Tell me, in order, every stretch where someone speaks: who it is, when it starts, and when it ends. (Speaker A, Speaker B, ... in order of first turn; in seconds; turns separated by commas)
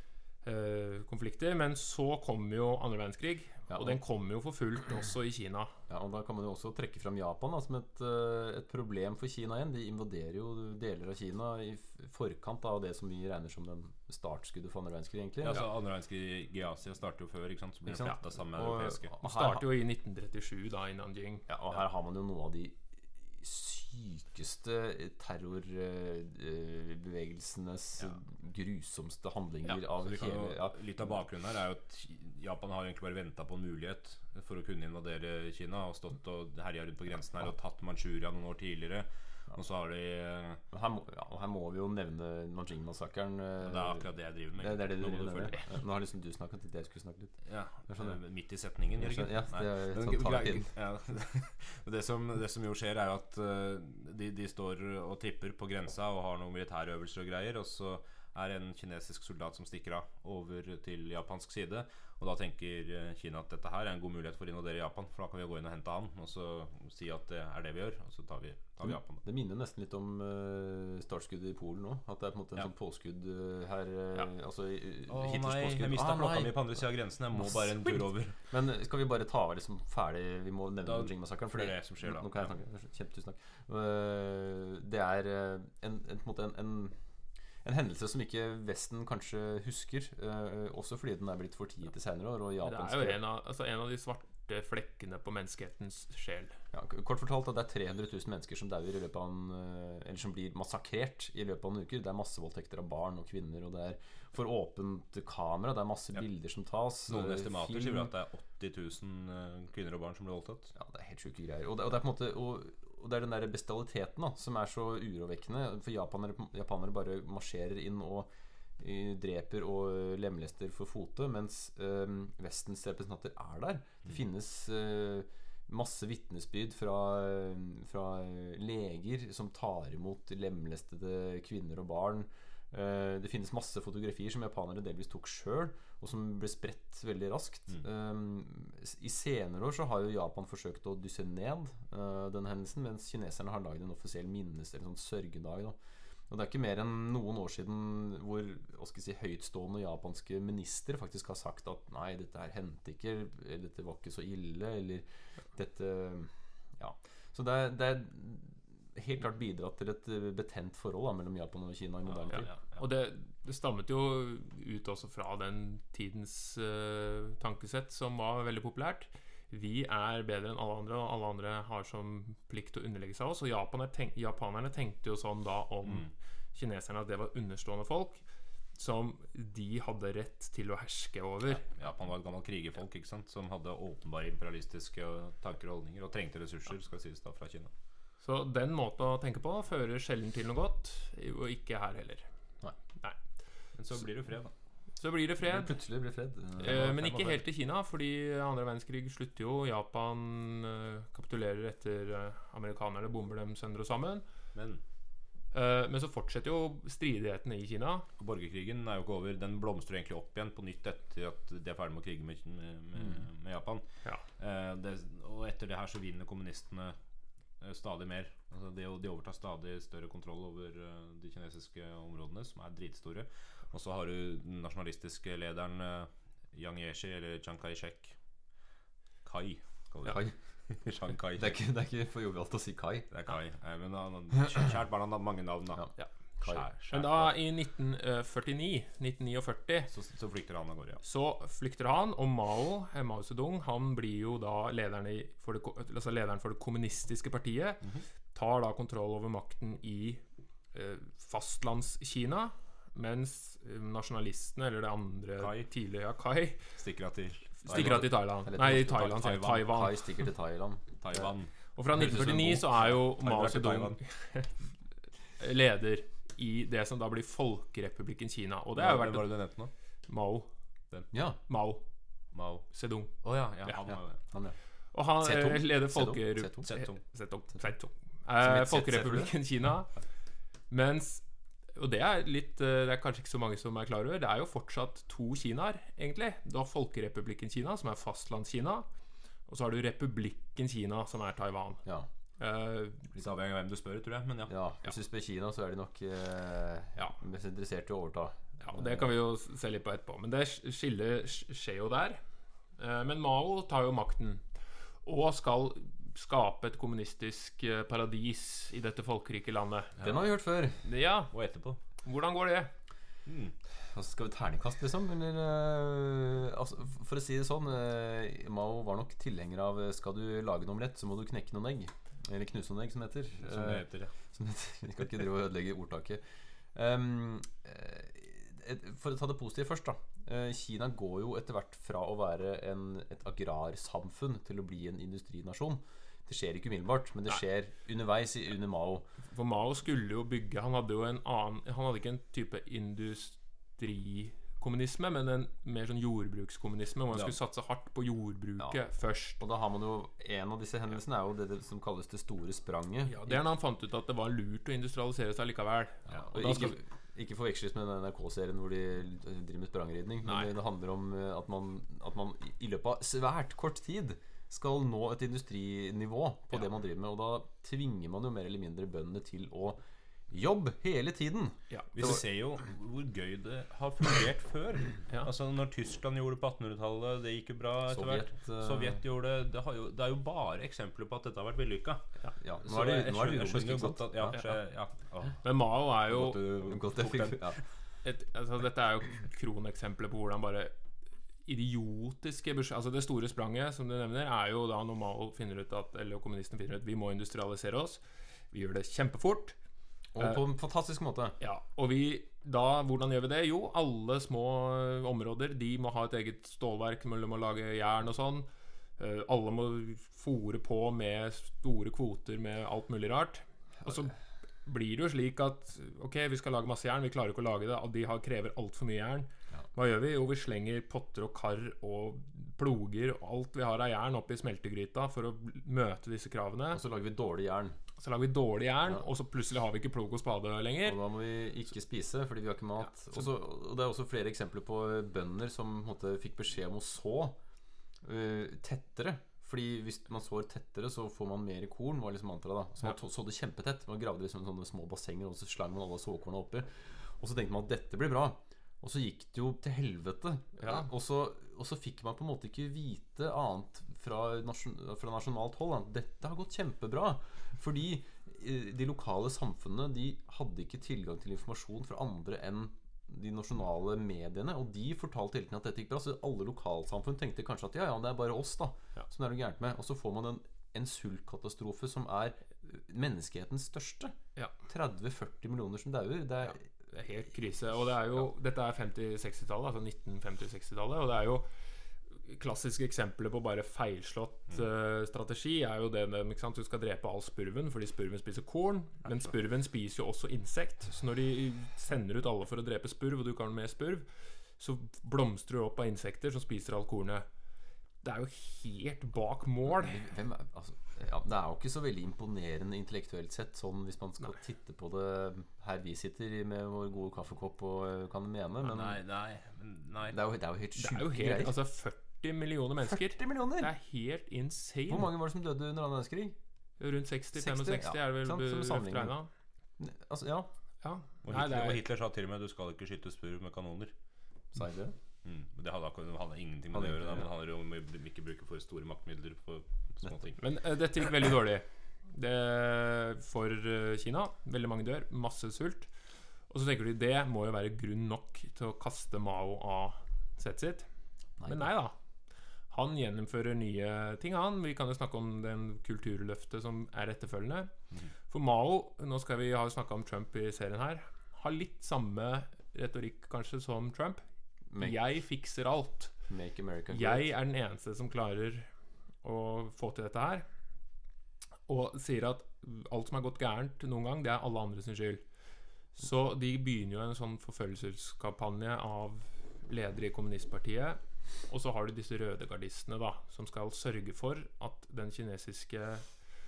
Speaker A: 0.4-5.7, Speaker B: 3.7-4.0, Speaker B: 5.9-15.6, Speaker C: 15.4-19.1, Speaker B: 17.9-19.7, Speaker A: 19.2-21.5, Speaker B: 21.5-22.8, Speaker B: 23.3-30.8, Speaker C: 30.0-40.6, Speaker B: 40.7-44.1, Speaker C: 43.6-45.6, Speaker B: 44.6-47.4, Speaker C: 47.5-69.2, Speaker B: 47.9-48.2, Speaker B: 49.0-50.7, Speaker B: 68.8-76.7, Speaker C: 75.1-78.4, Speaker B: 78.5-87.0, Speaker C: 80.8-82.5, Speaker B: 87.6-93.2, Speaker A: 92.6-96.6, Speaker B: 96.7-108.1, Speaker C: 107.1-110.7, Speaker B: 110.7-145.8, Speaker B: 146.3-162.5, Speaker C: 162.1-162.8, Speaker A: 162.8-178.2, Speaker C: 175.8-176.1, Speaker A: 178.8-181.7, Speaker C: 181.5-187.7, Speaker A: 188.2-192.3, Speaker C: 193.8-194.5, Speaker A: 195.0-195.7, Speaker B: 195.4-197.4, Speaker A: 196.6-204.2, Speaker C: 204.5-204.8, Speaker A: 205.5-208.1, Speaker C: 208.2-213.8, Speaker C: 214.4-216.9, Speaker C: 217.6-228.2, Speaker C: 229.2-231.5, Speaker B: 230.0-230.3, Speaker B: 231.4-233.1, Speaker C: 233.1-235.8, Speaker B: 235.8-236.7, Speaker C: 236.4-237.3, Speaker A: 236.9-239.9, Speaker C: 239.9-241.0, Speaker A: 241.0-250.2, Speaker A: 250.7-256.7, Speaker C: 255.4-255.7, Speaker C: 256.8-258.1, Speaker A: 257.6-260.2, Speaker B: 257.7-261.3, Speaker C: 258.9-259.7, Speaker C: 261.0-262.6, Speaker A: 261.8-264.5, Speaker B: 261.9-262.7, Speaker C: 263.1-264.0, Speaker A: 265.4-269.5, Speaker C: 268.8-269.7, Speaker A: 270.1-270.5, Speaker B: 271.1-271.4, Speaker A: 271.5-271.8, Speaker C: 272.3-272.7, Speaker A: 272.7-273.8, Speaker C: 273.2-274.2, Speaker B: 273.9-274.6, Speaker A: 274.9-279.9, Speaker B: 275.2-276.7, Speaker C: 276.7-277.0, Speaker B: 278.4-279.3, Speaker A: 280.7-281.2, Speaker A: 281.8-288.9, Speaker A: 289.5-291.8, Speaker A: 292.4-293.1, Speaker C: 293.1-294.5, Speaker B: 294.5-299.1, Speaker A: 298.6-302.2, Speaker A: 302.8-304.4, Speaker A: 305.1-309.9, Speaker C: 310.0-310.3, Speaker B: 310.0-310.8, Speaker A: 310.8-311.3, Speaker C: 311.3-311.8, Speaker A: 312.0-312.7, Speaker C: 313.3-313.5, Speaker B: 313.8-339.1, Speaker C: 323.4-324.1, Speaker A: 339.3-349.4, Speaker B: 349.4-353.4, Speaker A: 353.1-356.7, Speaker B: 356.1-372.2, Speaker C: 356.4-356.7, Speaker A: 360.2-360.5, Speaker A: 371.7-372.0, Speaker C: 371.9-382.0, Speaker B: 377.9-379.0, Speaker B: 382.4-384.4, Speaker C: 382.6-385.4, Speaker A: 384.3-384.6, Speaker A: 385.4-386.4, Speaker B: 386.1-387.6, Speaker C: 386.2-387.4, Speaker A: 388.0-390.7, Speaker A: 391.4-398.0, Speaker A: 398.5-399.6, Speaker B: 400.1-401.4, Speaker A: 401.4-408.5, Speaker A: 409.0-426.8, Speaker B: 426.7-427.8, Speaker A: 428.0-431.0, Speaker B: 430.8-437.4, Speaker B: 438.0-476.7, Speaker A: 476.5-481.5, Speaker A: 482.2-494.1, Speaker A: 494.6-497.3, Speaker A: 498.0-500.0, Speaker B: 499.7-509.0, Speaker C: 508.6-510.2, Speaker B: 510.1-511.5, Speaker A: 510.8-515.1, Speaker B: 513.1-513.7, Speaker B: 514.9-516.4, Speaker A: 516.8-519.3, Speaker B: 517.4-519.2, Speaker B: 519.8-520.5, Speaker A: 520.8-521.8, Speaker C: 521.2-523.9, Speaker B: 524.5-525.0, Speaker C: 525.2-530.4, Speaker B: 526.7-527.2, Speaker A: 530.4-535.9, Speaker A: 536.5-540.9, Speaker B: 541.4-541.7, Speaker A: 541.5-541.9, Speaker A: 542.7-547.7, Speaker A: 548.3-554.2, Speaker B: 554.7-555.0, Speaker A: 554.8-556.1, Speaker B: 556.3-557.3, Speaker A: 556.9-558.7, Speaker A: 559.2-560.5, Speaker A: 561.7-565.2, Speaker A: 566.0-576.1